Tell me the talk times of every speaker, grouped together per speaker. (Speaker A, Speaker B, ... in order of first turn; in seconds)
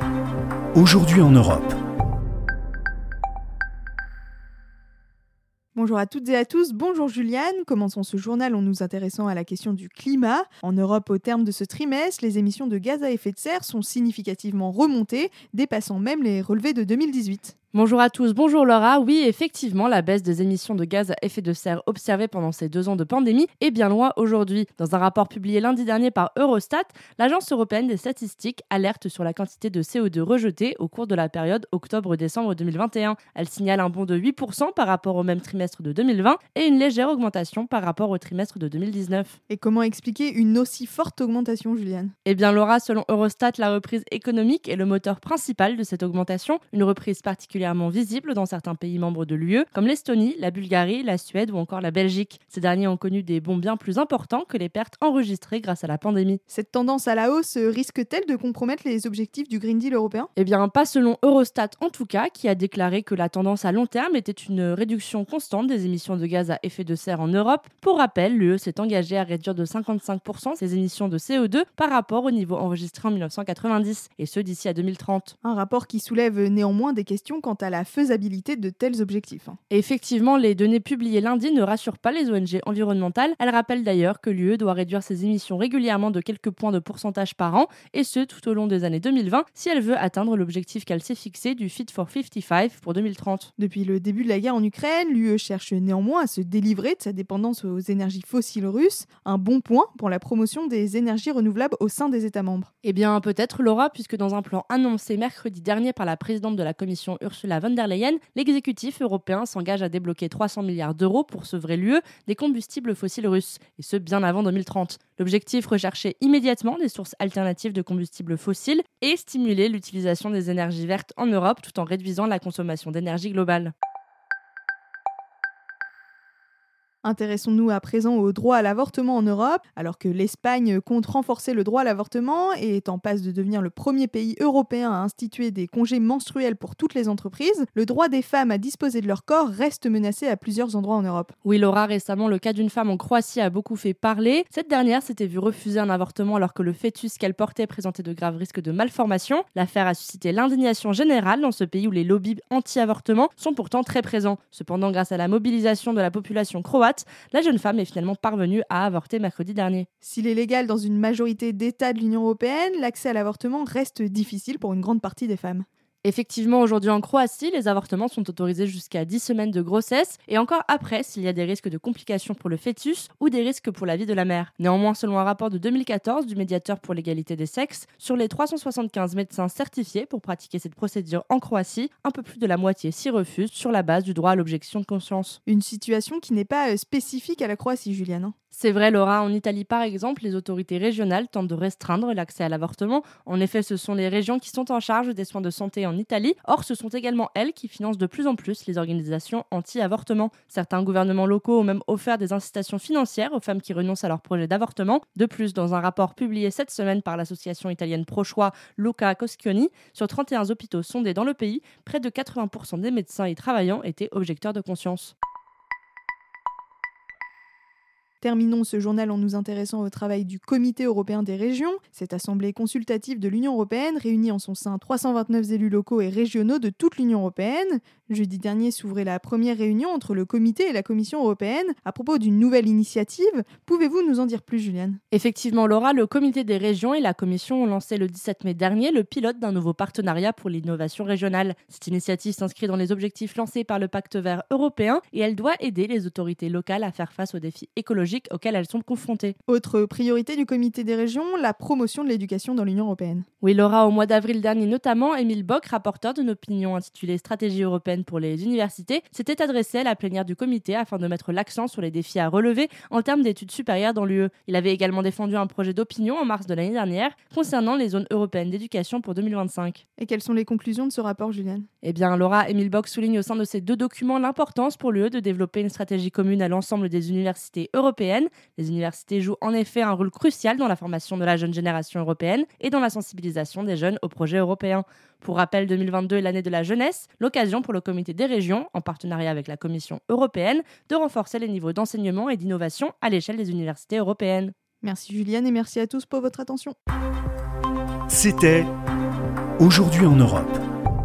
Speaker A: 0.8-1.8, 298.1-298.7, 299.6-300.6
Speaker B: 5.8-17.5, 39.5-42.1, 56.5-60.3, 75.4-79.6, 93.6-102.7, 127.0-141.3, 160.0-165.7, 185.5-188.3, 218.2-235.0, 249.5-253.3, 270.0-271.7, 294.8-296.7
Speaker C: 17.7-39.4, 42.2-56.4, 60.4-75.3, 79.7-93.5, 102.8-123.7, 141.4-159.9, 166.0-185.4, 188.5-215.1, 235.1-249.4, 253.4-269.8, 271.8-294.5